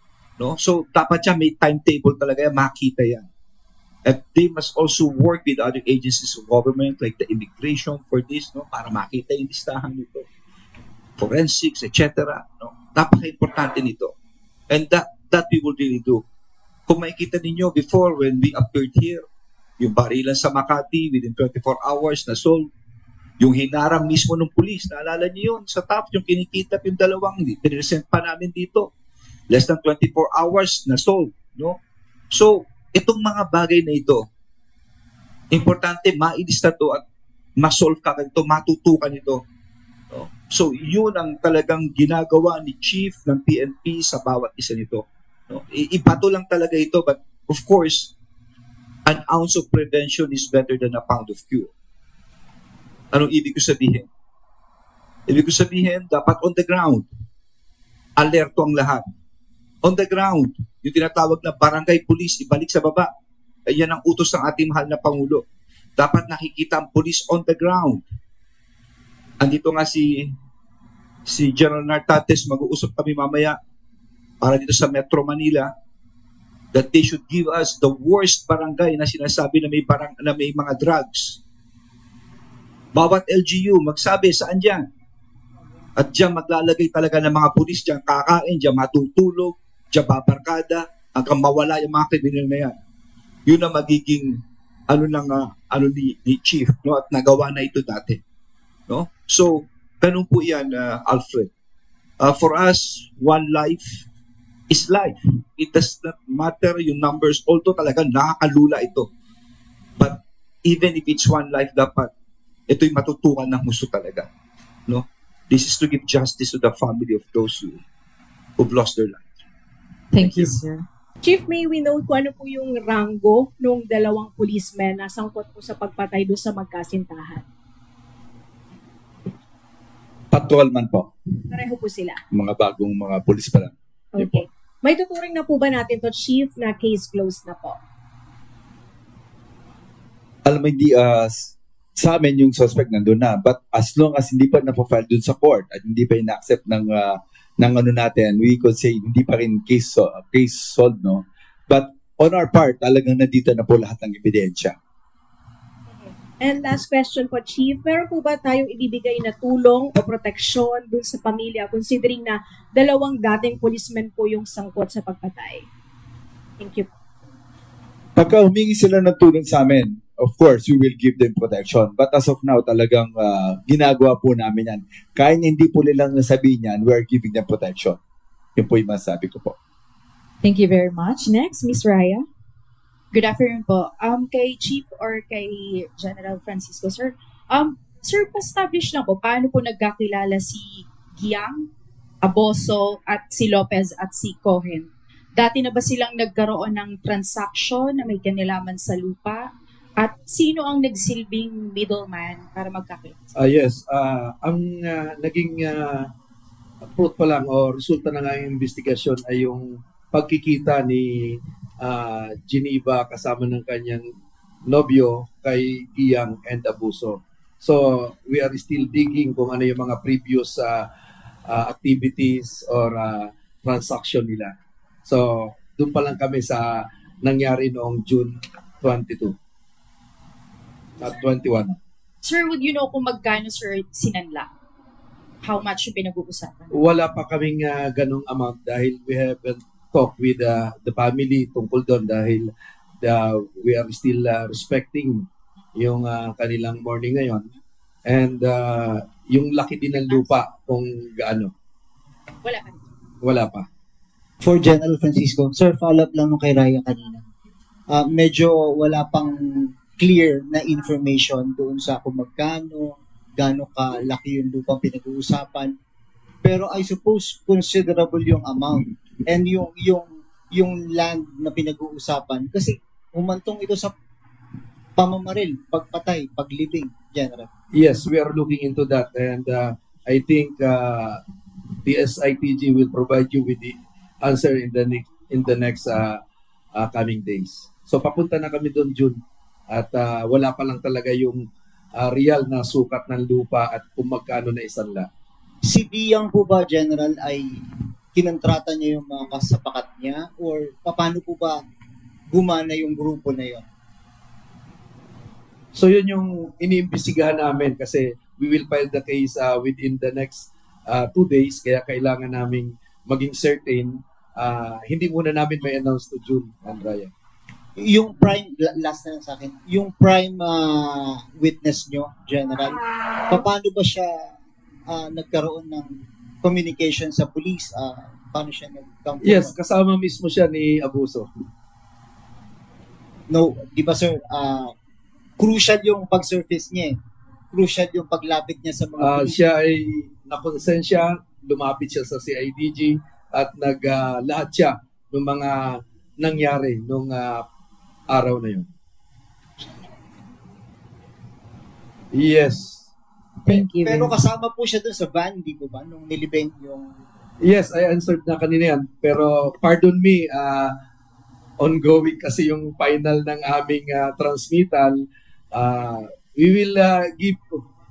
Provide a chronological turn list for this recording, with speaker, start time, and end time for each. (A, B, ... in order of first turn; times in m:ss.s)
0:00.4-0:03.3 A
0:04.1-0:10.3 A
0:11.2-0:14.1 A
0:14.7-0:16.2 A
0:16.9-0:19.2 A
0:19.8-0:22.7 A
0:23.4-0:28.9 A
0:29.5-0:31.8 A
0:32.3-0:34.3 A
0:35.5-0:37.0 A
0:37.6-0:39.4 A
0:40.1-0:48.1 A
0:49.1-0:51.7 A
0:53.1-0:54.0 A
0:55.3-0:57.1 A
0:58.2-0:59.0 A
0:59.8-1:03.1 A
1:03.7-1:05.4 A
1:06.0-1:08.1 A
1:09.4-1:10.3 A
1:11.3-1:13.6 A
1:14.4-1:15.7 A
1:16.7-1:21.4 A
1:23.0-1:24.8 A
1:26.0-1:32.8 A
1:33.5-1:38.2 A
1:38.9-1:41.5 A
1:42.2-1:44.0 A
1:44.7-1:49.1 A
1:50.0-1:52.1 A
1:52.7-1:54.3 A
1:54.9-1:57.8 A
1:58.6-1:59.2 A
2:00.1-2:00.8 B
2:00.2-2:00.5 A
2:01.2-2:07.4 C
2:10.3-2:11.1 D
2:11.5-2:12.2 C
2:12.3-2:14.4 D
2:14.2-2:17.8 C
2:20.5-2:34.8 D
2:36.4-2:45.7 C
2:46.6-2:46.9 C
2:48.2-2:58.0 D
2:58.6-2:59.6 D
3:00.4-3:02.3 B
3:03.1-3:11.7 E
3:12.2-3:23.3 E
3:23.4-3:26.1 F
3:27.0-3:34.1 F
3:34.7-3:40.8 F
3:41.5-3:44.5 F
3:45.0-3:46.7 F
3:47.2-3:49.4 F
3:51.0-3:51.8 F
3:52.2-3:54.5 E
3:55.4-3:56.8 E
3:56.7-4:02.5 F
4:03.0-4:05.2 F
4:05.8-4:07.5 F
4:08.1-4:11.5 F
4:10.0-4:10.4 E
4:12.4-4:12.8 E
4:13.2-4:13.7 F
4:14.4-4:17.2 G
4:17.9-4:25.7 G
4:26.4-4:33.9 G
4:35.0-4:37.5 G
4:37.8-4:41.2 F
4:41.8-4:46.2 F
4:46.8-4:49.2 F
4:49.7-4:51.4 F
4:52.0-4:55.1 F
4:55.6-5:01.6 G
5:02.3-5:03.6 G
5:05.8-5:17.1 F
5:17.8-5:24.3 G
5:24.9-5:29.6 G
5:29.2-5:31.3 F
5:33.3-5:34.7 G
5:35.4-5:37.0 G
5:37.5-5:39.4 G
5:39.0-5:47.4 F
5:48.1-5:48.7 F
5:52.1-5:52.9 F
5:53.5-5:54.2 B
5:53.5-5:56.9 G
5:57.4-6:00.7 F
6:01.6-6:05.0 F
6:05.5-6:07.6 F